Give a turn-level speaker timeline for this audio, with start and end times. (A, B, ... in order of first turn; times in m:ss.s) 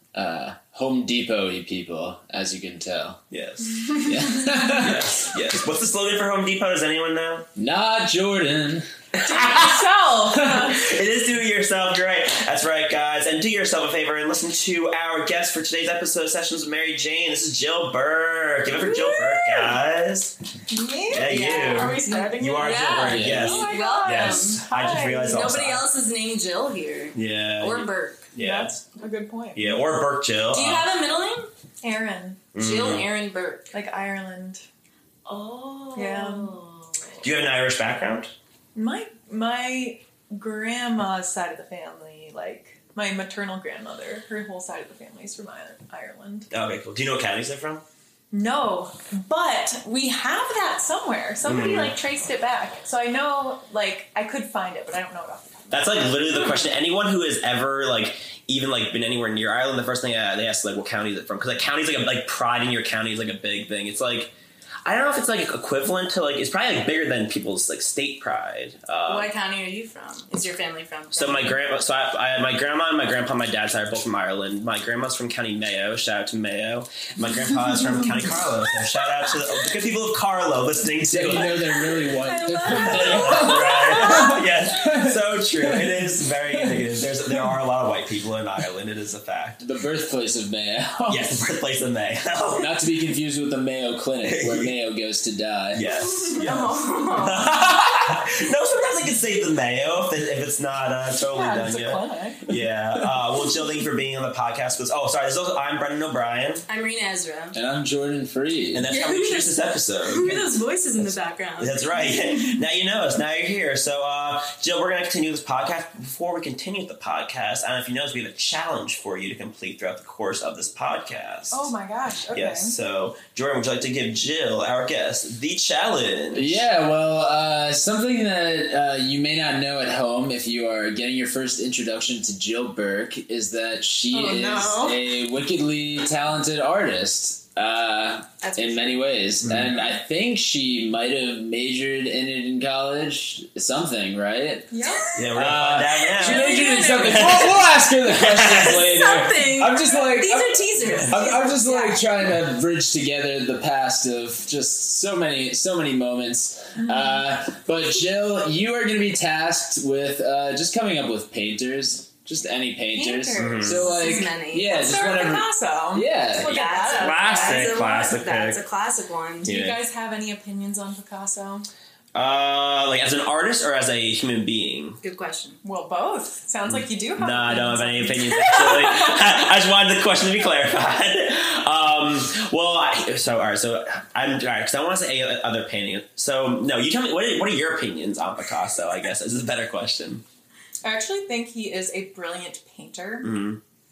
0:00.1-0:03.2 A
0:03.3-0:07.5 B
0:03.8-0:04.1 C
0:04.1-0:05.2 A
0:07.6-0:08.8 A
0:09.2-0:10.9 C
0:09.2-0:09.8 B
0:10.3-0:10.7 A
0:10.6-0:20.4 B
0:18.7-0:19.8 C
0:20.7-0:25.5 C
0:21.1-0:25.8 B
0:21.2-0:24.6 D
0:23.1-0:23.7 A
0:25.2-0:28.3 D
0:27.2-0:28.8 B
0:28.4-0:29.8 C
0:29.5-0:30.9 B
0:30.5-0:31.5 D
0:31.8-0:32.5 C
0:32.5-0:33.1 B
0:32.6-0:33.8 D
0:33.7-0:34.6 C
0:35.3-0:37.3 D
0:36.0-0:36.6 C
0:37.2-0:38.3 B
0:38.7-0:46.5 C
0:46.5-0:47.8 B
0:48.3-0:56.4 C
0:51.4-0:51.9 B
0:55.7-1:04.3 B
1:04.8-1:09.3 B
1:09.1-1:11.6 D
1:11.1-1:22.1 B
1:21.0-1:27.5 A
1:22.2-1:24.4 D
1:22.7-1:29.6 B
1:29.6-1:31.5 A
1:31.1-1:32.7 B
1:32.6-1:35.8 A
1:34.3-1:34.7 B
1:35.7-1:46.6 B
1:36.2-1:37.6 D
1:41.3-1:42.5 C
1:46.7-1:47.6 D
1:47.5-1:48.8 A
1:48.7-1:50.6 B
1:48.9-1:51.9 D
1:51.6-2:01.7 B
1:51.9-1:52.6 C
2:01.5-2:02.8 C
2:02.3-2:06.6 B
2:06.3-2:24.7 A
2:14.1-2:15.1 C
2:18.4-2:19.1 D
2:19.4-2:19.7 B
2:24.7-2:25.2 C
2:24.8-2:25.3 D
2:25.2-2:28.8 B
2:25.4-2:46.6 A
2:25.9-2:27.6 D
2:28.6-2:31.9 D
2:30.8-2:31.2 B
2:31.1-2:32.0 C
2:36.8-2:37.2 C
2:42.9-2:47.8 C
2:43.4-2:43.9 B
2:43.9-2:44.9 D
2:46.4-2:49.5 D
2:46.9-2:48.6 B
2:49.4-2:49.8 B
2:49.4-2:51.7 C
2:52.2-2:55.0 B
2:55.0-2:55.6 D
2:55.6-2:59.4 C
2:56.7-3:10.2 B
2:58.5-2:58.9 D
3:10.8-3:13.3 C
3:13.2-3:13.6 B